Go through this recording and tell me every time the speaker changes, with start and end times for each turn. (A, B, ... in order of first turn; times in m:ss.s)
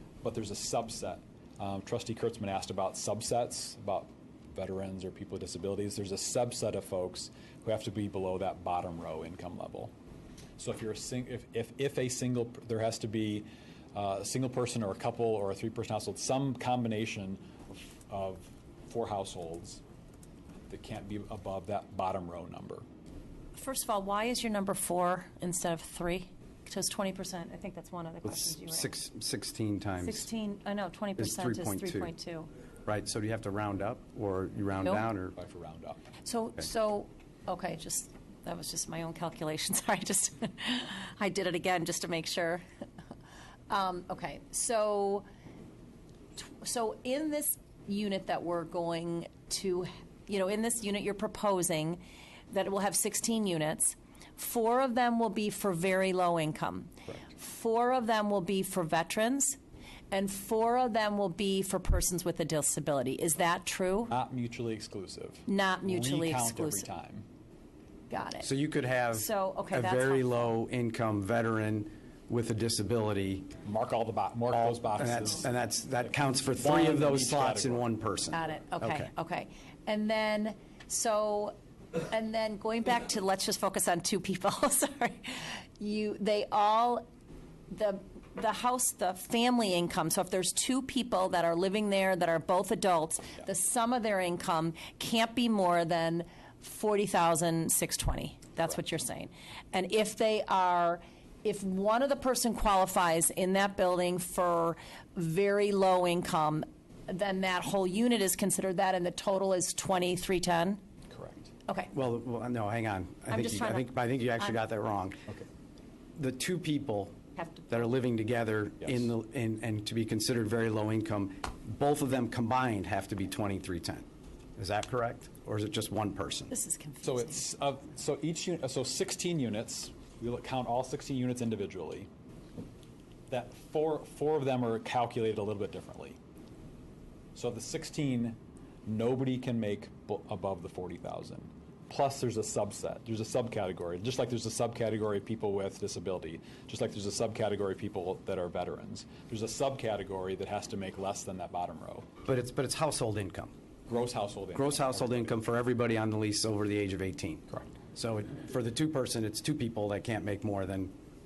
0:00.2-0:09.9 A
0:10.6-0:19.8 A
0:20.7-0:22.9 A
0:23.6-0:28.9 B
0:28.2-0:30.3 C
0:30.0-0:32.5 B
0:31.2-0:32.1 C
0:32.9-0:35.4 C
0:34.8-0:35.1 B
0:35.4-0:36.0 A
0:36.2-0:42.6 B
0:43.7-0:45.3 B
0:46.4-0:59.6 B
1:00.1-1:04.1 B
1:04.1-1:07.2 A
1:05.5-1:06.9 B
1:08.1-1:08.5 B
1:08.4-1:13.5 C
1:09.1-1:10.5 B
1:13.6-1:15.5 A
1:14.5-1:19.1 C
1:16.6-1:17.9 A
1:18.3-1:21.6 B
1:22.1-1:27.0 B
1:27.7-1:50.8 B
1:51.1-1:51.5 A
1:51.9-1:55.3 C
1:53.3-1:54.6 B
1:56.2-1:57.2 C
1:57.4-1:57.9 B
1:57.7-2:04.0 C
1:58.8-1:59.1 A
2:04.6-2:06.5 C
2:06.5-2:07.4 B
2:07.0-2:12.1 A
2:13.3-2:16.2 A
2:17.4-2:32.1 A
2:32.3-2:33.5 C
2:33.9-2:35.5 A
2:34.6-2:40.9 C